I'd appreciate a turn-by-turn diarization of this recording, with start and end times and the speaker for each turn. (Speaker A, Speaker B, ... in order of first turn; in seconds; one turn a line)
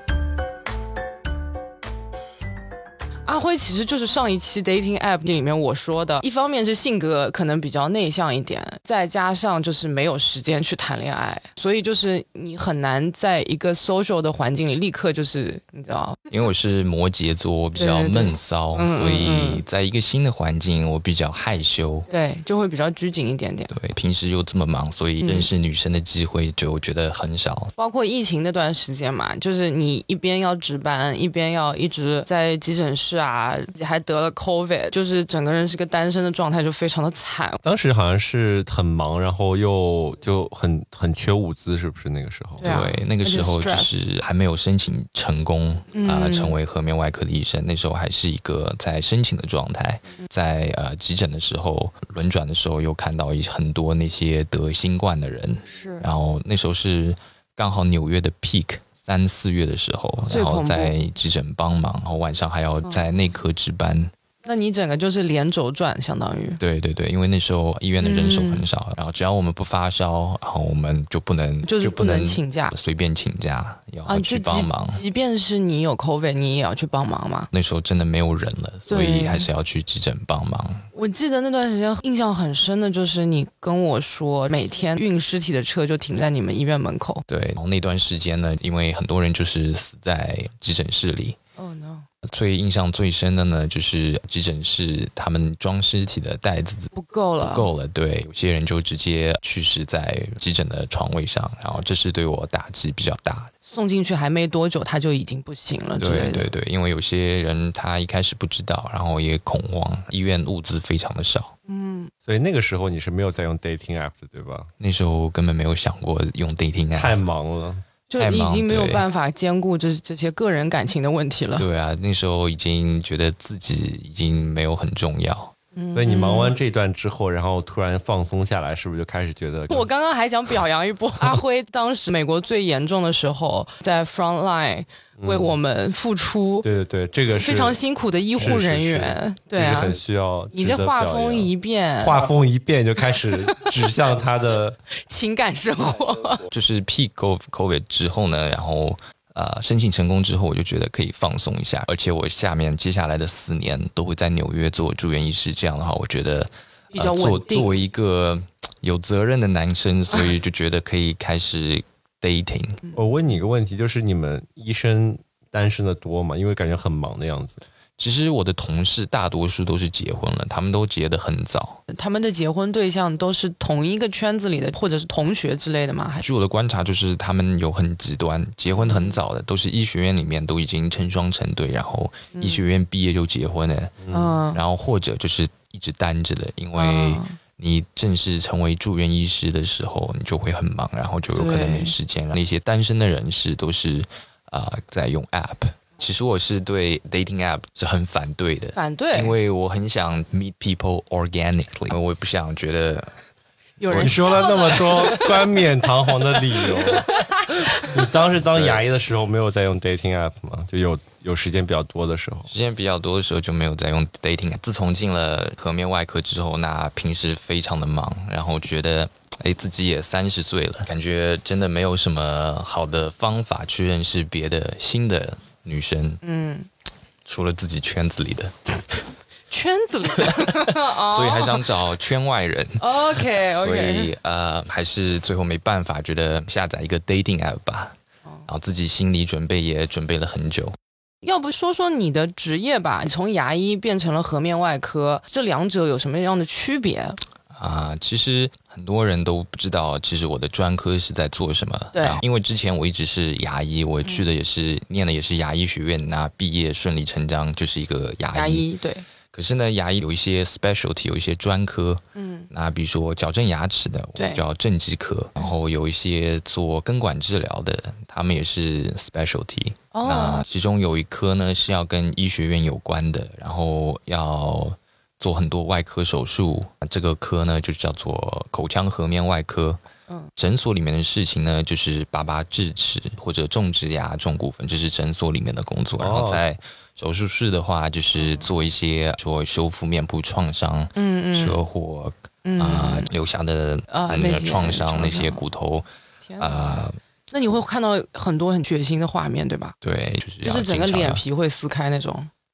Speaker A: 3.2-16.2
Speaker B: 16.3-22.1
Speaker A: 17.8-19.6
Speaker A: 22.1-23.7
Speaker B: 23.7-27.7
Speaker A: 25.2-25.5
Speaker A: 27.8-37.6
Speaker C: 37.6-42.7
Speaker A: 42.6-43.9
Speaker B: 42.6-64.1
Speaker A: 45.9-46.5
Speaker A: 55.7-56.0
Speaker A: 60.3-60.9
Speaker A: 64.4-66.6
Speaker B: 66.6-75.0
Speaker A: 68.0-68.7
Speaker A: 71.6-72.7
Speaker A: 74.0-77.5
Speaker B: 77.5-80.8
Speaker A: 78.9-79.5
Speaker A: 80.9-87.2
Speaker B: 87.3-91.4
Speaker A: 91.6-92.0
Speaker B: 92.2-103.5
Speaker A: 96.9-97.7
Speaker A: 103.7-106.5
Speaker B: 106.0-111.5
Speaker A: 111.7-112.1
Speaker C: 112.2-114.7
Speaker B: 114.8-117.2
Speaker C: 116.9-117.8
Speaker A: 118.1-121.7
Speaker B: 118.2-119.0
Speaker B: 121.5-125.5
Speaker A: 125.8-126.5
Speaker C: 125.9-129.9
Speaker A: 129.7-136.7
Speaker C: 135.2-135.6
Speaker C: 136.6-137.8
Speaker A: 137.2-139.9
Speaker C: 138.4-144.8
Speaker A: 140.5-142.2
Speaker A: 145.1-146.4
Speaker B: 146.5-162.8
Speaker A: 156.9-157.7
Speaker C: 162.9-167.6
Speaker B: 168.0-171.8
Speaker A: 171.9-176.2
Speaker B: 176.2-203.1
Speaker A: 178.7-179.2
Speaker C: 184.0-184.3
Speaker A: 184.1-184.6
Speaker A: 186.8-187.3
Speaker A: 191.3-191.9
Speaker A: 198.7-199.3
Speaker A: 203.8-205.5
Speaker C: 203.9-207.1
Speaker A: 206.6-207.9
Speaker C: 207.8-212.5
Speaker B: 208.5-208.8
Speaker B: 212.5-226.2
Speaker A: 226.2-226.7
Speaker B: 227.2-228.8
Speaker A: 229.5-231.6
Speaker B: 231.1-237.9
Speaker A: 232.8-234.1
Speaker B: 238.5-240.8
Speaker A: 241.2-247.2
Speaker B: 247.5-258.6
Speaker A: 251.9-252.2
Speaker A: 258.3-259.0
Speaker B: 259.3-279.8
Speaker A: 262.1-262.5
Speaker A: 264.1-264.4
Speaker A: 269.9-270.4
Speaker B: 280.4-295.9
Speaker C: 286.0-286.4
Speaker A: 288.2-288.5
Speaker A: 290.9-291.6
Speaker A: 292.4-293.1
Speaker A: 293.9-295.4
Speaker A: 296.2-299.7
Speaker B: 296.4-296.9
Speaker B: 299.8-301.2
Speaker A: 300.4-302.3